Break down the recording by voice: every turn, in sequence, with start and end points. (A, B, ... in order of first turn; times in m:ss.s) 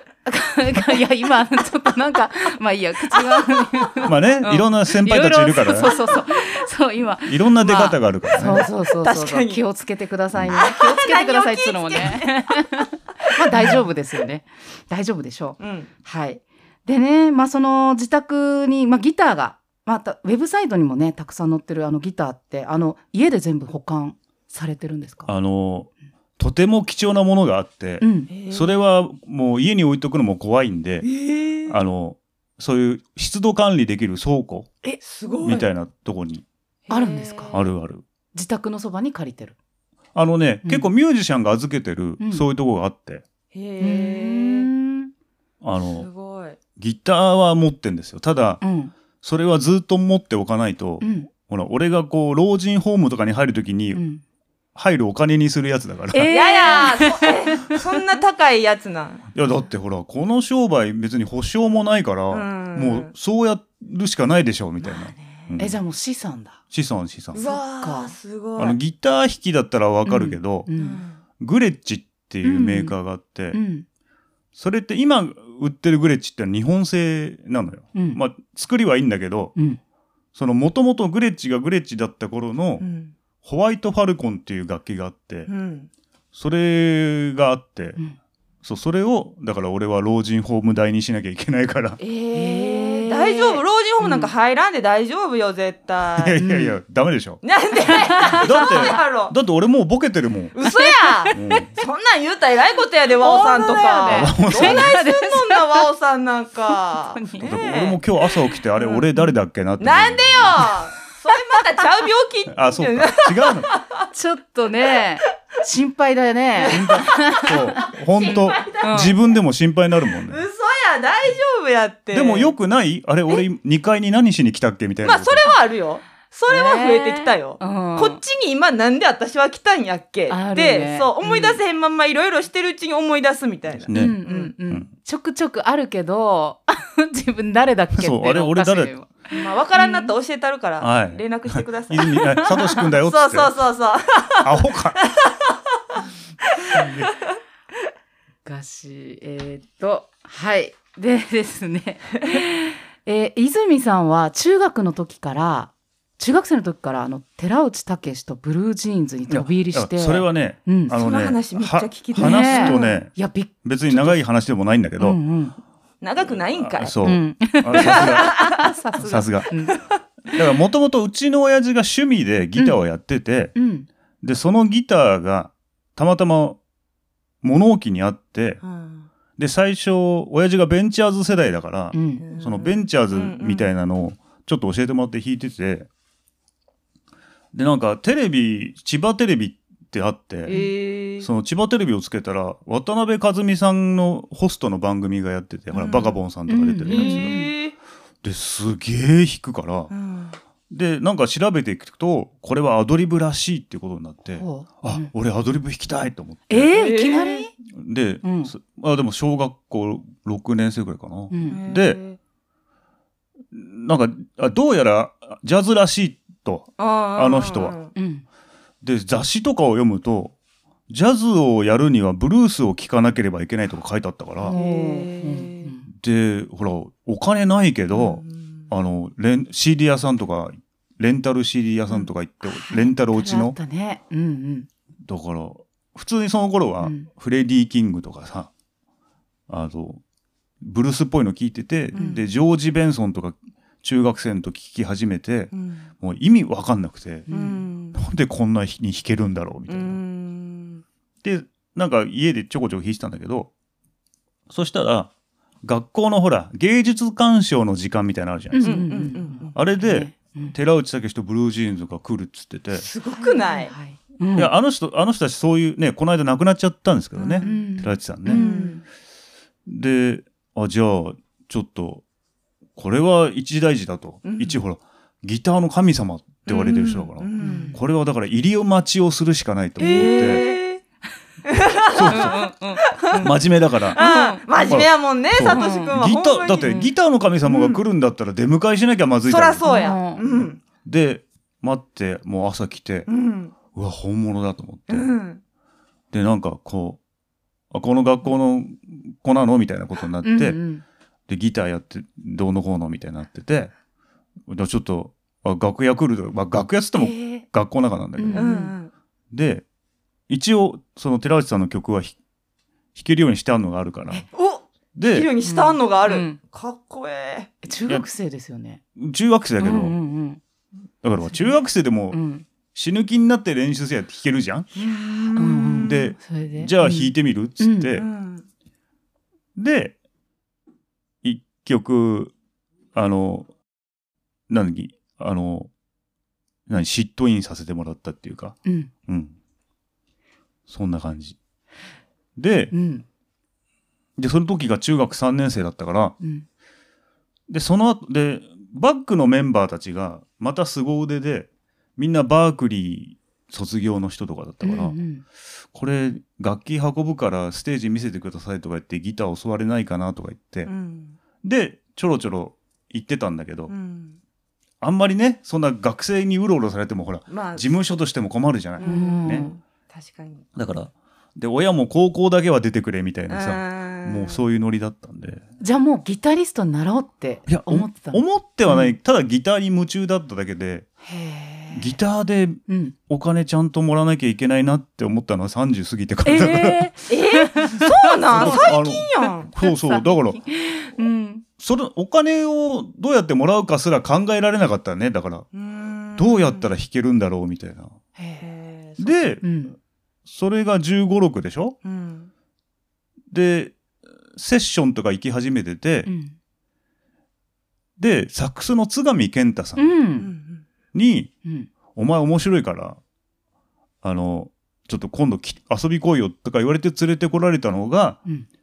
0:00.2-0:25.3 A
0:03.1-0:03.9 B
0:04.1-0:06.0 C
0:05.8-0:06.6 B
0:07.3-0:08.6 C
0:08.4-0:09.6 B
0:10.5-0:12.7 B
0:13.4-0:13.8 B
0:15.6-0:15.9 B
0:25.3-0:31.1 C
0:28.0-0:28.3 A
0:28.3-0:28.8 B
0:31.0-0:31.8 B
0:31.6-0:34.7 C
0:35.0-0:35.6 B
0:35.4-0:36.4 C
0:36.9-0:37.6 B
0:36.9-0:37.6 A
0:37.5-0:38.0 C
0:38.3-0:39.6 A
0:40.1-0:43.2 C
0:42.2-0:42.4 A
0:43.5-0:44.7 B
0:43.8-0:45.1 A
0:45.6-0:46.1 C
0:45.8-0:46.6 B
0:46.8-0:48.6 C
0:48.6-0:48.9 A
0:49.2-0:54.0 C
0:51.0-0:51.3 A
0:53.9-0:54.2 A
0:54.8-0:56.8 C
0:56.1-0:57.9 A
0:56.3-0:59.3 B
0:59.3-1:05.8 C
1:02.3-1:03.1 B
1:04.8-1:05.6 B
1:05.6-1:06.6 A
1:06.7-1:07.4 C
1:07.3-1:08.1 A
1:07.3-1:08.8 B
1:08.6-1:10.7 C
1:10.0-1:11.0 A
1:10.8-1:11.2 B
1:11.4-1:13.6 C
1:12.4-1:12.9 A
1:13.5-1:13.8 A
1:14.5-1:19.5 C
1:20.4-1:22.8 C
1:22.8-1:23.1 B
1:23.4-1:25.5 C
1:25.5-1:25.9 B
1:26.3-1:28.0 C
1:28.6-1:32.0 C
1:32.0-1:36.4 B
1:32.3-1:34.3 A
1:36.2-1:37.4 C
1:36.4-1:36.8 A
1:37.4-1:39.3 B
1:38.1-1:38.9 A
1:38.2-1:40.5 C
1:40.5-1:48.0 B
1:40.6-1:41.8 A
1:41.3-1:41.7 C
1:43.2-1:45.8 A
1:44.1-1:45.0 C
1:46.7-1:47.5 A
1:47.4-1:50.7 C
1:48.8-1:49.0 B
1:49.8-1:54.1 B
1:52.5-1:53.7 C
1:54.1-1:59.1 A
1:56.6-1:59.4 B
1:56.7-2:00.4 C
2:00.2-2:02.5 B
2:02.1-2:05.5 C
2:05.0-2:14.5 B
2:06.5-2:08.2 A
2:10.3-2:11.6 A
2:13.8-2:14.2 C
2:13.9-2:20.1 A
2:17.9-2:18.9 C
2:19.3-2:26.0 B
2:20.8-2:23.5 C
2:24.4-2:25.0 C
2:26.6-2:27.3 B
2:26.8-2:27.1 C
2:28.4-2:40.9 A
2:39.3-2:43.1 C
2:40.9-2:43.0 B
2:42.2-2:44.2 A
2:43.6-2:45.2 C
2:45.0-2:45.6 A
2:46.0-2:47.0 B
2:46.5-2:49.5 C
2:47.0-2:49.8 A
2:47.8-2:48.7 B
2:50.3-2:53.5 C
2:53.5-2:53.9 A
2:54.2-2:56.6 C
2:57.4-2:58.6 C
2:58.6-2:59.1 B
2:59.4-3:05.9 C
3:01.9-3:02.2 A
3:02.2-3:03.7 B
3:07.5-3:10.6 C
3:10.5-3:11.3 B
3:11.2-3:17.4 C
3:15.7-3:16.2 B
3:16.5-3:17.5 A
3:16.9-3:17.7 B
3:18.2-3:19.9 C
3:19.9-3:20.4 B
3:20.7-3:26.8 C
3:24.4-3:25.1 A
3:26.5-3:27.5 A
3:26.7-3:27.5 B
3:27.7-3:32.0 C
3:28.2-3:28.5 A
3:31.3-3:31.6 A
3:31.5-3:32.2 B
3:33.5-3:37.8 C
3:36.8-3:37.9 B
3:37.9-3:38.2 A
3:38.8-3:40.3 C
3:40.9-3:44.5 C
3:44.4-3:45.9 A
3:44.5-3:45.7 B
3:45.9-3:53.6 C
3:47.9-3:48.7 B
3:52.4-3:54.7 A
3:55.0-3:58.5 C
3:56.8-3:57.1 A
3:59.5-4:00.0 C
4:00.6-4:07.3 C
4:01.9-4:02.2 B
4:05.5-4:05.9 B
4:07.3-4:07.6 A
4:07.3-4:08.0 B
4:07.9-4:10.0 C
4:09.7-4:10.8 B
4:11.2-4:13.5 C
4:14.5-4:15.1 C
4:15.6-4:22.9 C
4:18.5-4:20.5 A
4:18.6-4:19.5 B
4:22.7-4:23.7 B
4:23.2-4:24.5 A
4:24.4-4:28.4 C
4:27.2-4:27.6 B
4:27.4-4:28.8 A
4:28.2-4:28.8 B
4:29.6-4:32.0 C
4:32.8-4:40.4 C
4:34.2-4:34.6 B
4:36.4-4:37.7 B
4:37.4-4:37.8 A
4:39.8-4:40.6 A
4:39.8-4:40.8 B
4:41.4-4:43.3 B
4:41.9-4:42.5 C
4:42.1-4:43.3 A
4:43.1-4:44.0 C
4:43.9-4:46.9 B
4:43.9-4:44.6 A
4:44.6-4:49.6 C
4:45.4-4:46.0 A
4:47.4-4:47.8 B
4:49.3-4:50.6 B
4:49.6-4:50.2 A
4:50.4-4:53.1 C
4:53.1-4:53.5 B
4:53.7-4:55.1 C
4:54.9-4:55.4 B
4:56.1-4:57.0 C
4:57.7-5:00.6 C
5:00.2-5:00.8 A
5:01.3-5:03.7 C
5:04.5-5:08.5 C
5:06.9-5:07.4 A
5:08.2-5:08.8 A
5:08.4-5:08.9 B
5:09.3-5:09.6 C
5:10.3-5:12.2 C
5:12.9-5:14.3 C
5:14.3-5:17.5 B
5:15.0-5:15.3 C
5:15.4-5:16.4 A
5:17.6-5:18.8 A
5:19.0-5:20.0 C
5:19.6-5:20.4 A
5:21.0-5:22.2 C
5:21.2-5:22.4 A
5:22.8-5:24.7 C
5:24.8-5:26.1 B
5:25.4-5:27.9 A
5:25.8-5:28.0 C
5:27.9-5:28.4 B
5:29.6-5:29.9 C
5:31.2-5:32.3 C
5:32.9-5:33.5 C
5:34.5-5:35.7 C
5:36.7-5:39.4 C
5:38.6-5:38.9 A
5:40.7-5:41.4 C
5:42.4-5:42.7 C
5:42.7-5:43.0 A
5:44.2-5:46.2 C
5:46.2-5:46.4 A
5:47.5-5:55.0 C
5:54.6-5:55.2 A
5:55.7-6:00.7 C
6:00.6-6:01.2 B
6:01.4-6:03.7 C
6:03.7-6:04.2 B
6:04.8-6:09.5 C
6:07.3-6:07.7 B
6:08.8-6:10.4 B
6:08.8-6:09.5 A
6:10.6-6:15.4 C
6:13.3-6:14.4 B
6:15.6-6:18.9 A
6:17.5-6:20.9 C
6:21.0-6:22.0 A
6:21.7-6:26.9 C
6:22.7-6:22.9 A
6:26.2-6:28.8 A
6:27.1-6:29.5 B
6:28.3-6:30.4 C
6:29.6-6:31.4 A
6:31.6-6:35.5 C
6:35.5-6:36.7 B
6:36.2-6:37.9 C
6:38.2-6:38.5 A
6:38.4-6:39.3 B
6:39.0-6:39.4 C
6:39.4-6:39.8 A
6:40.2-6:41.8 C
6:41.8-6:42.3 B
6:43.3-6:43.8 C
6:44.3-6:46.1 C
6:46.0-6:46.4 A
6:48.0-6:49.9 C
6:49.8-6:50.3 A
6:50.2-6:50.6 B
6:50.9-6:51.3 C
6:51.4-6:51.7 A
6:51.9-6:53.0 C
6:54.0-6:58.2 C